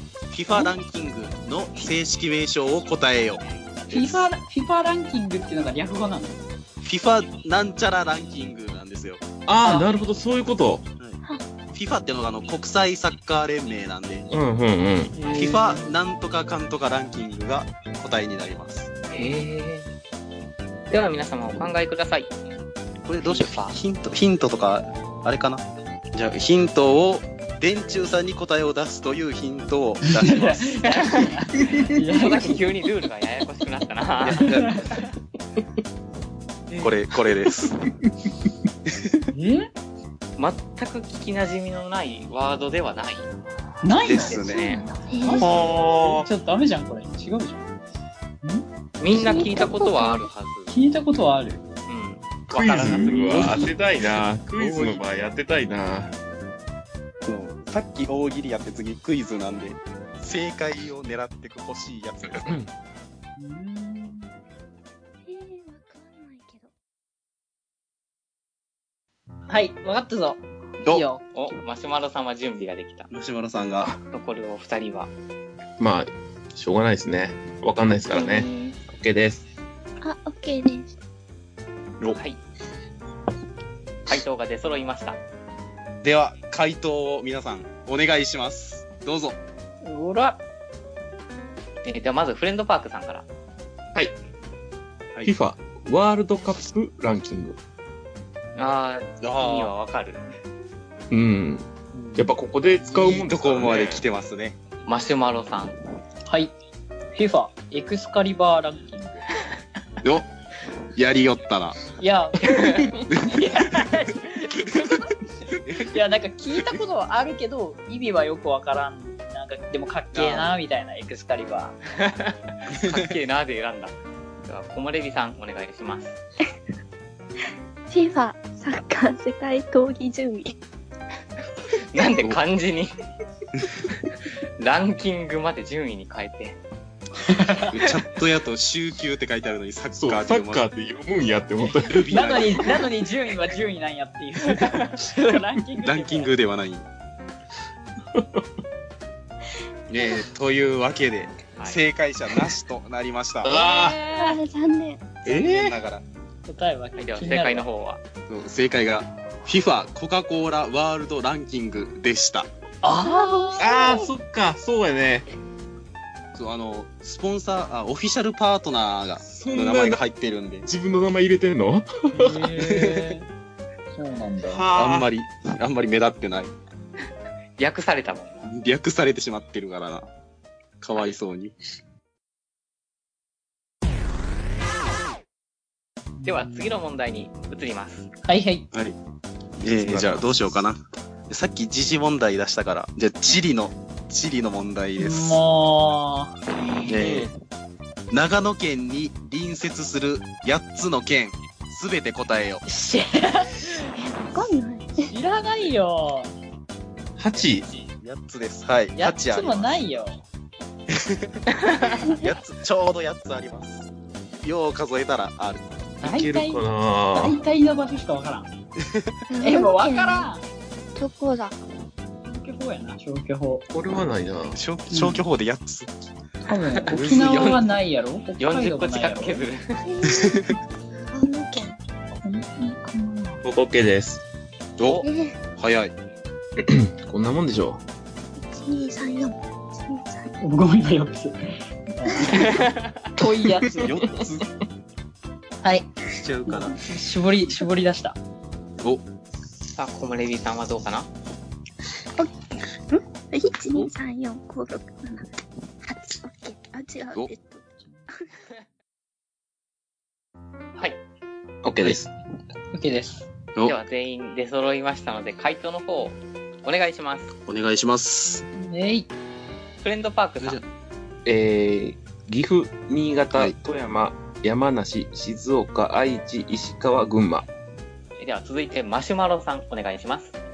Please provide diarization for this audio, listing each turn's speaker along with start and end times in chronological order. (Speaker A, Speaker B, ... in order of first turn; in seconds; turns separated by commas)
Speaker A: 0.3-4.3, Speaker B: 3.9-6.4, Speaker A: 6.8-9.2, Speaker C: 9.5-10.9, Speaker A: 11.7-14.3, Speaker C: 14.3-15.2, Speaker B: 15.1-15.9, Speaker A: 15.3-18.9, Speaker D: 19.1-19.9, Speaker D: 20.9-22.3, Speaker A: 23.1-30.8, Speaker D: 23.2-23.8, Speaker B: 30.0-32.6, Speaker D: 30.8-31.3, Speaker D: 32.0-34.5, Speaker A: 34.2-35.0, Speaker B: 34.4-35.0, Speaker A: 36.8-37.8, Speaker A: 38.9-39.2, Speaker B: 39.3-39.7, Speaker D: 40.4-43.3, Speaker B: 43.8-44.4, Speaker A: 44.0-44.8, Speaker D: 44.1-44.9, Speaker E: 44.5-45.6, Speaker B: 45.2-47.6, Speaker C: 45.4-46.3, Speaker D: 49.0-50.7, Speaker E: 49.1-50.3, Speaker B: 50.7-51.6, Speaker D: 51.9-53.6, Speaker C: 52.5-56.1, Speaker B: 52.8-53.7, Speaker A: 54.6-55.0, Speaker A: 57.2-62.5, Speaker C: 62.4-62.7, Speaker B: 63.4-64.3, Speaker E: 65.3-66.7, Speaker B: 69.5-71.2, Speaker D: 71.3-73.1, Speaker A: 73.1-73.9, Speaker D: 74.0-75.1, Speaker C: 75.8-79.5, Speaker E: 78.1-78.8, Speaker E: 80.0-80.9, Speaker D: 82.1-82.4, Speaker D: 84.1-85.2, Speaker A: 86.0-89.4, Speaker B: 89.8-90.4, Speaker D: 91.8-93.3, Speaker C: 95.2-97.6, Speaker D: 98.6-100.2, Speaker A: 99.2-99.7, Speaker C: 101.1-104.0, Speaker B: 101.9-102.2, Speaker A: 102.9-104.6, Speaker D: 104.9-105.8, Speaker B: 106.3-106.5, Speaker B: 107.1-109.3, Speaker A: 110.0-110.3, Speaker A: 110.9-111.8, Speaker B: 112.0-115.1, Speaker D: 112.4-112.9, Speaker A: 113.1-113.8, Speaker A: 115.7-115.9, Speaker B: 115.7-121.8, Speaker A: 120.1-120.5, Speaker D: 122.0-123.9, Speaker A: 122.8-123.1, Speaker D: 124.5-126.2, Speaker E: 127.9-130.6, Speaker D: 131.8-132.9, Speaker D: 134.0-136.6, Speaker B: 137.2-137.7, Speaker A: 137.7-140.6, Speaker C: 140.0-142.3, Speaker A: 141.8-142.8, Speaker B: 141.9-146.3, Speaker A: 145.8-146.9, Speaker C: 148.1-148.4, Speaker A: 149.9-153.5, Speaker C: 153.4-154.0, Speaker B: 153.4-154.4, Speaker E: 154.1-155.2, Speaker A: 155.2-156.0, Speaker C: 155.3-155.8, Speaker B: 156.5-157.7, Speaker D: 157.0-158.0, Speaker A: 158.3-162.5, Speaker B: 162.8-164.0, Speaker E: 163.0-164.1, Speaker C: 163.6-165.3, Speaker A: 166.3-170.7, Speaker C: 169.2-170.0, Speaker C: 170.7-172.6, Speaker B: 172.1-173.3, Speaker A: 172.7-173.2, Speaker B: 173.9-174.7, Speaker C: 174.5-175.1, Speaker A: 174.8-176.5, Speaker D: 177.6-178.5, Speaker A: 178.5-180.1, Speaker A: 180.8-181.5, Speaker B: 186.2-186.7, Speaker D: 186.2-188.1, Speaker B: 188.2-188.7, Speaker A: 188.7-189.0, Speaker A: 189.6-195.4, Speaker C: 189.8-190.3, Speaker B: 195.0-196.4, Speaker E: 196.6-197.0, Speaker A: 196.9-197.3, Speaker A: 198.1-202.6, Speaker B: 202.7-203.9, Speaker E: 203.9-205.1, Speaker B: 205.1-206.3, Speaker C: 207.2-207.7, Speaker A: 208.0-209.8, Speaker B: 208.9-210.2, Speaker A: 210.9-211.4, Speaker D: 211.6-211.9, Speaker E: 211.9-212.3, Speaker A: 212.1-213.9, Speaker A: 214.4-215.8, Speaker C: 216.0-217.4, Speaker B: 216.0-218.5, Speaker A: 218.8-219.1, Speaker E: 219.3-220.3, Speaker B: 219.4-220.4, Speaker E: 220.9-221.6, Speaker B: 222.2-223.7, Speaker C: 223.7-224.6, Speaker A: 224.5-225.9, Speaker B: 224.9-225.2, Speaker B: 226.4-229.4, Speaker D: 226.8-227.7, Speaker A: 226.9-227.7, Speaker D: 228.4-229.8, Speaker E: 229.9-230.4, Speaker A: 230.1-230.6, Speaker E: 231.1-231.8, Speaker B: 232.2-233.4, Speaker C: 233.4-234.2, Speaker A: 234.8-235.1, Speaker E: 235.0-235.4, Speaker A: 235.6-235.9, Speaker C: 236.6-237.8, Speaker E: 238.4-240.3, Speaker B: 240.4-241.3, Speaker B: 241.9-243.9, Speaker D: 242.4-242.9, Speaker C: 243.6-244.2, Speaker A: 243.7-244.5, Speaker B: 245.6-245.9, Speaker A: 246.1-246.8, Speaker B: 246.5-248.2, Speaker D: 249.7-251.1, Speaker E: 252.9-255.3, Speaker E: 255.8-257.6, Speaker C: 261.6-262.1, Speaker B: 262.7-263.3, Speaker D: 263.6-267.3, Speaker A: 267.5-268.4, Speaker B: 268.6-269.1, Speaker D: 269.8-270.6, Speaker C: 271.3-277.5, Speaker D: 278.2-280.4